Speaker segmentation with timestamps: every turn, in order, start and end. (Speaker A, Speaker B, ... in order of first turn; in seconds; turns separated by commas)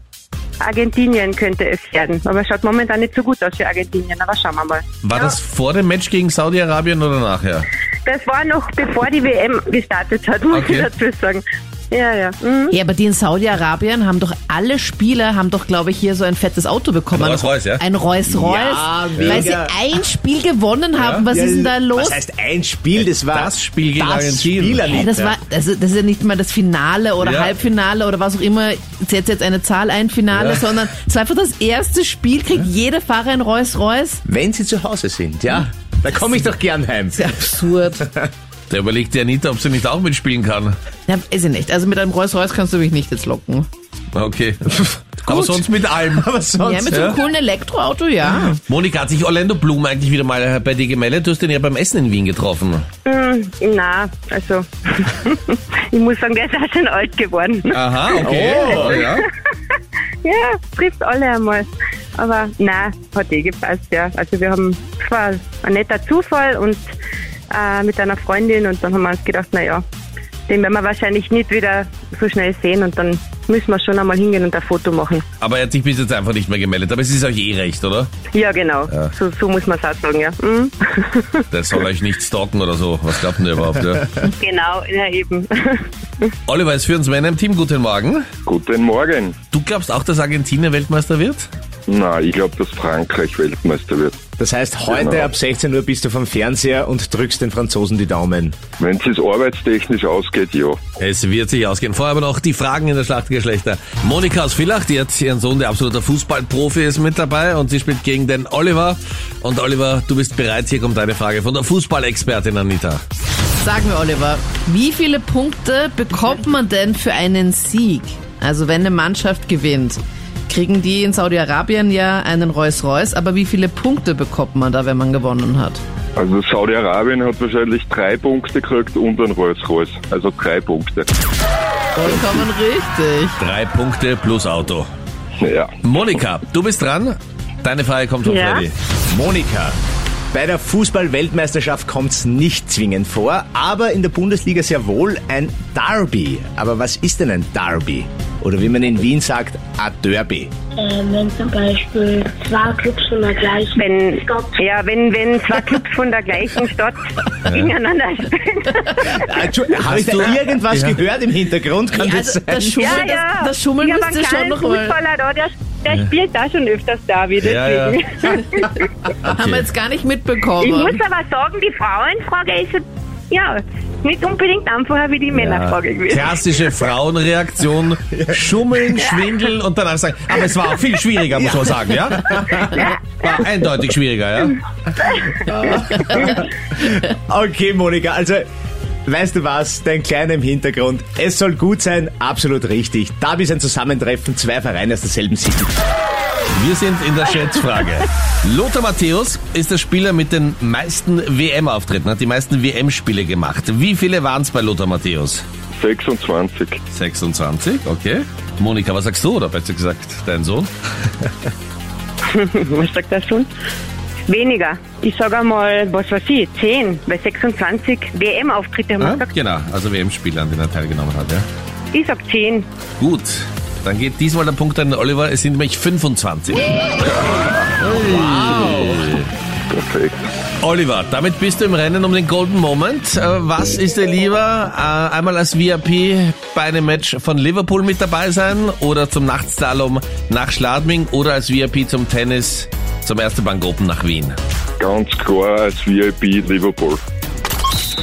Speaker A: 0.6-5.3, Speaker B: 5.0-7.7, Speaker A: 8.1-12.8, Speaker B: 10.5-10.9, Speaker C: 12.7-22.2, Speaker B: 17.1-17.8, Speaker D: 18.3-19.8, Speaker B: 19.2-19.5, Speaker B: 21.0-21.3, Speaker D: 21.3-25.4, Speaker B: 23.1-24.8, Speaker C: 25.0-34.2, Speaker B: 27.2-27.6, Speaker D: 34.3-37.4, Speaker C: 37.1-38.1, Speaker D: 38.0-38.3, Speaker B: 38.7-40.8, Speaker C: 41.1-43.7, Speaker B: 44.1-46.3, Speaker D: 45.3-47.2, Speaker C: 46.6-48.6, Speaker B: 48.7-52.9, Speaker A: 53.0-59.2, Speaker B: 57.7-59.3, Speaker D: 58.1-59.1, Speaker A: 60.2-66.9, Speaker A: 67.5-69.8, Speaker A: 70.5-75.2, Speaker B: 75.4-78.1, Speaker A: 78.3-81.4, Speaker B: 81.5-84.2, Speaker A: 84.2-86.3, Speaker B: 86.5-88.3, Speaker E: 88.5-89.4, Speaker B: 89.5-91.5, Speaker E: 91.9-94.2, Speaker D: 94.4-98.6, Speaker E: 94.9-95.3, Speaker E: 98.8-100.8, Speaker B: 101.0-113.0, Speaker C: 113.6-125.8, Speaker E: 126.2-131.1, Speaker C: 131.9-133.4, Speaker B: 133.4-134.9, Speaker E: 135.4-135.7, Speaker B: 135.8-138.8, Speaker A: 138.2-138.7, Speaker D: 139.1-139.8, Speaker D: 140.3-150.5, Speaker F: 150.8-154.6, Speaker A: 153.8-159.2, Speaker B: 157.5-157.7, Speaker D: 159.1-163.0, Speaker B: 159.8-161.0, Speaker C: 161.9-165.0, Speaker A: 162.8-169.1, Speaker B: 167.4-168.0, Speaker B: 169.2-169.6, Speaker C: 169.2-171.0, Speaker A: 170.6-176.4, Speaker B: 175.3-184.6, Speaker D: 181.6-182.4, Speaker D: 185.3-188.4, Speaker D: 189.1-195.7, Speaker B: 196.5-205.4, Speaker E: 205.8-206.8, Speaker B: 206.9-210.7, Speaker A: 212.2-213.5, Speaker A: 214.3-219.3, Speaker B: 219.0-221.5, Speaker A: 221.9-222.7, Speaker B: 223.0-226.8, Speaker E: 227.0-227.5, Speaker B: 227.8-229.3, Speaker E: 229.7-230.2, Speaker B: 230.6-244.3, Speaker E: 244.8-247.0